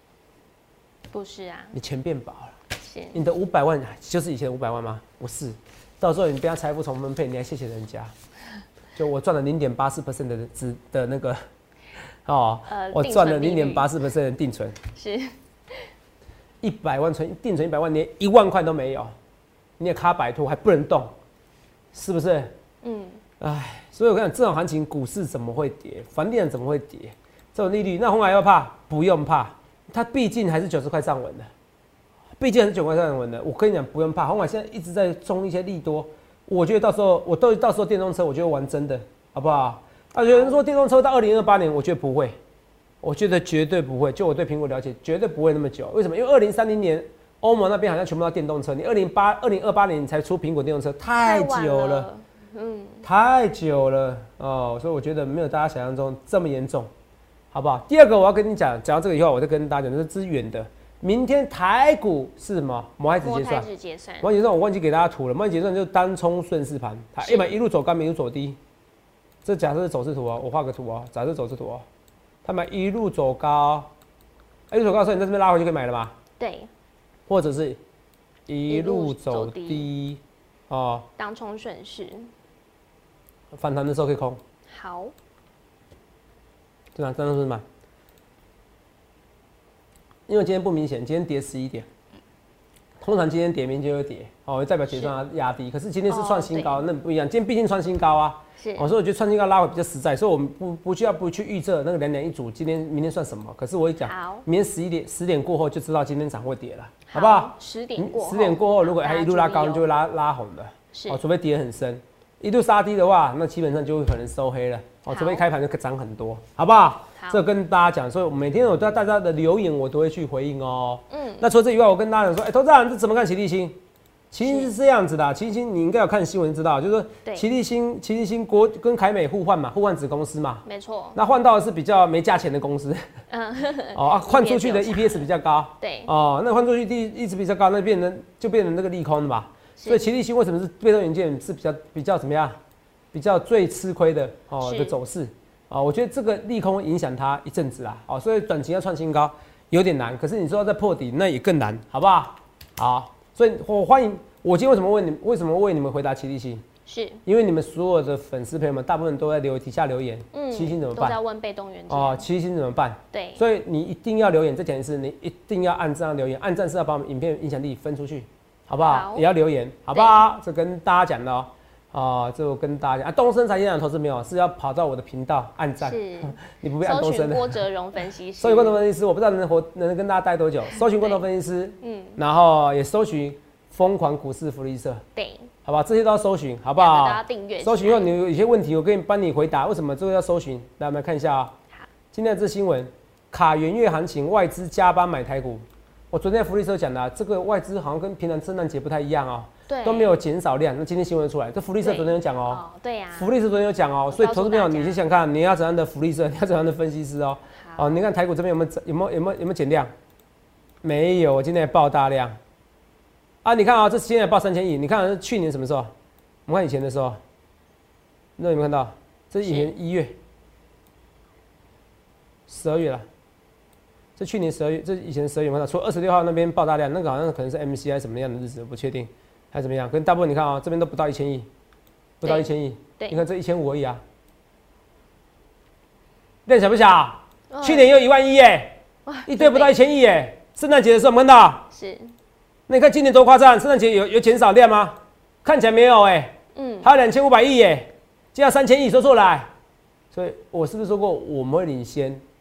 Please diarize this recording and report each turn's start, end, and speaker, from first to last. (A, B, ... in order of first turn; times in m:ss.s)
0:01.1-0:01.7 A
0:01.7-0:02.6 B
0:02.8-0:03.2 A
0:03.1-0:08.1 B
0:09.0-0:11.4 B
0:12.2-0:14.8 B
0:12.7-0:13.9 A
0:15.0-0:15.9 A
0:16.6-0:19.1 B
0:19.8-0:21.1 B
0:21.9-0:22.5 B
0:22.8-0:23.2 A
0:23.4-0:31.5 B
0:32.4-0:42.4 B
0:40.3-0:40.6 A
0:43.0-0:52.1 B
0:51.2-0:53.1 A
0:53.0-0:56.9 B
0:57.5-1:03.7 B
1:03.2-1:04.3 A
1:04.2-1:08.6 B
1:07.2-1:07.6 A
1:09.4-1:11.8 B
1:12.4-1:13.9 B
1:14.7-1:16.2 B
1:16.4-1:16.7 A
1:17.3-1:17.8 B
1:18.5-1:21.1 B
1:18.7-1:19.9 A
1:21.2-1:22.3 A
1:23.5-1:24.4 B
1:24.7-1:25.1 A
1:27.0-1:27.6 B
1:30.3-1:31.9 B
1:33.0-2:03.8 B
1:36.1-1:36.8 A
1:38.6-1:38.9 A
1:44.0-1:44.4 A
1:47.1-1:49.9 A
1:50.9-1:51.2 A
1:55.1-1:55.4 A
2:01.1-2:01.5 A
2:04.3-2:13.0 B
2:04.4-2:04.7 A
2:10.7-2:11.2 A
2:13.3-2:15.3 A
2:13.9-2:22.6 B
2:15.8-2:16.1 A
2:19.8-2:20.0 A
2:23.1-2:36.6 B
2:24.6-2:25.0 A
2:36.9-2:37.2 A
2:37.3-2:41.2 B
2:40.3-2:42.3 A
2:41.9-2:57.6 B
2:43.1-2:43.4 A
2:48.8-2:49.3 A
2:49.9-2:50.2 A
2:55.8-2:58.8 A
2:58.4-3:05.0 B
3:00.8-3:01.2 A
3:01.8-3:02.2 A
3:05.2-3:05.5 A
3:05.6-3:11.5 B
3:06.8-3:08.1 A
3:12.1-3:22.6 B
3:19.7-3:20.2 A
3:21.8-3:23.3 A
3:23.2-3:29.9 B
3:24.1-3:25.0 A
3:27.6-3:28.0 A
3:30.8-3:32.4 B
3:33.4-3:35.9 B
3:36.5-3:37.2 B
3:38.4-3:40.2 B
3:39.4-3:39.7 A
3:42.5-3:43.1 B
3:44.2-3:51.5 B
3:52.2-3:54.0 B
3:52.2-3:53.2 A
3:56.5-4:01.7 B
3:57.5-3:57.9 A
3:59.1-3:59.7 A
4:01.7-4:02.1 A
4:02.7-4:09.5 B
4:06.6-4:06.9 A
4:10.1-4:12.2 B